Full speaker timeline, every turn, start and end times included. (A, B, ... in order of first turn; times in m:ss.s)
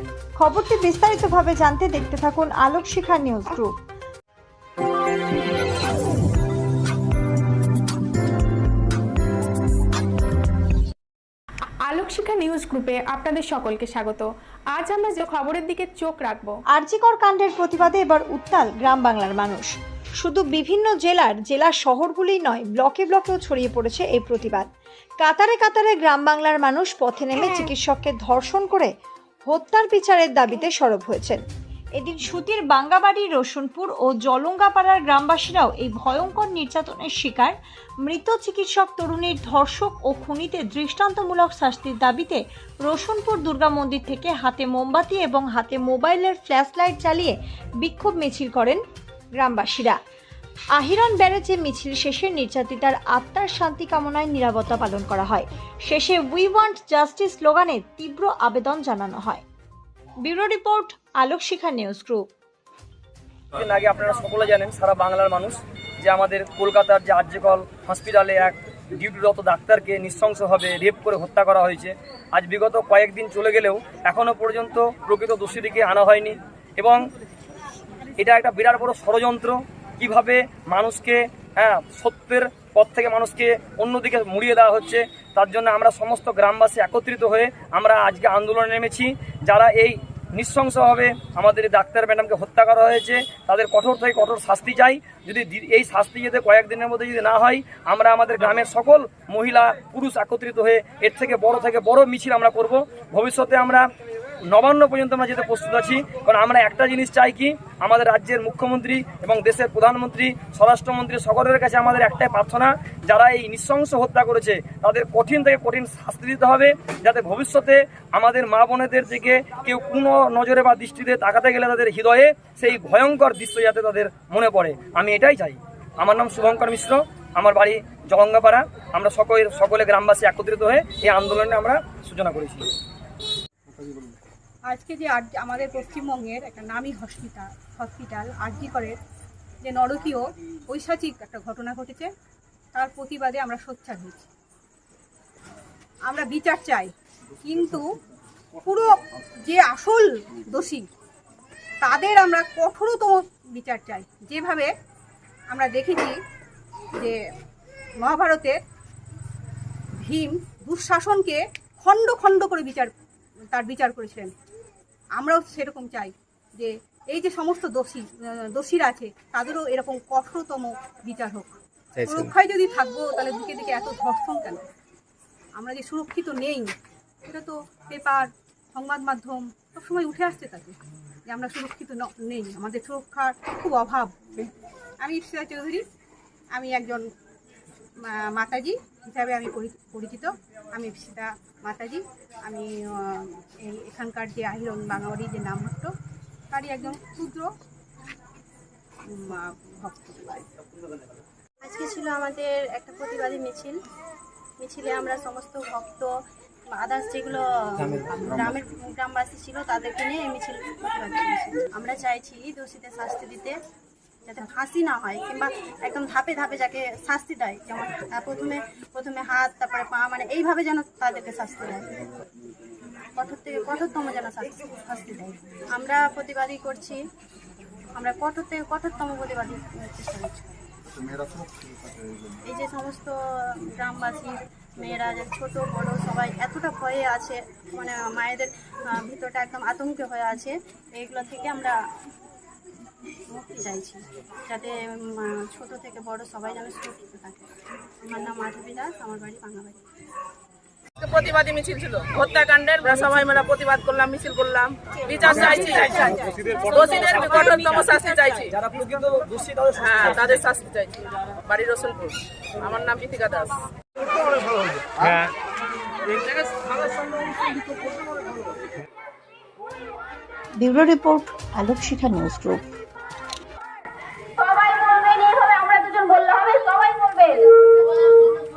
0:00.4-0:03.7 A
0:11.8-0:16.5 B
0:16.7-0:19.7 A
0:20.2-0:24.7 A
0:25.2-0:28.9 A
0:29.5-0:31.4 A
0:32.0-0:48.8 A
0:49.4-0:50.0 A
0:50.8-0:59.4 A
1:00.2-1:02.2 A
1:03.5-1:17.0 C
1:18.2-1:43.8 C
1:44.5-2:12.7 C
2:14.7-2:19.0 D
2:19.6-2:22.1 D
2:22.7-2:24.3 D
2:26.0-2:26.9 D
2:27.4-2:27.9 D
2:28.6-2:28.9 D
2:29.4-2:30.9 D
2:31.8-2:34.7 D
2:35.5-2:36.2 D
2:37.0-2:37.2 D
2:38.0-2:38.6 D
2:40.0-2:42.9 D
2:43.5-2:44.3 D
2:45.2-2:54.6 D
2:55.6-2:56.7 D
2:57.2-3:00.8 D
3:01.3-3:04.2 D
3:05.0-3:05.8 D
3:06.5-3:07.0 D
3:08.0-3:15.9 D
3:16.5-3:17.5 D
3:19.1-3:20.4 D
3:21.6-3:23.8 E
3:24.6-3:26.1 E
3:26.7-3:33.5 E
3:34.3-3:42.0 E
3:43.2-3:47.0 E
3:48.0-3:50.6 E
3:52.5-4:01.8 E
4:03.3-4:09.8 E
4:11.0-4:18.6 F
4:15.2-4:20.5 C
4:19.8-4:23.6 F
4:25.0-4:25.3 C
4:30.6-4:32.6 A
4:34.4-4:37.6 G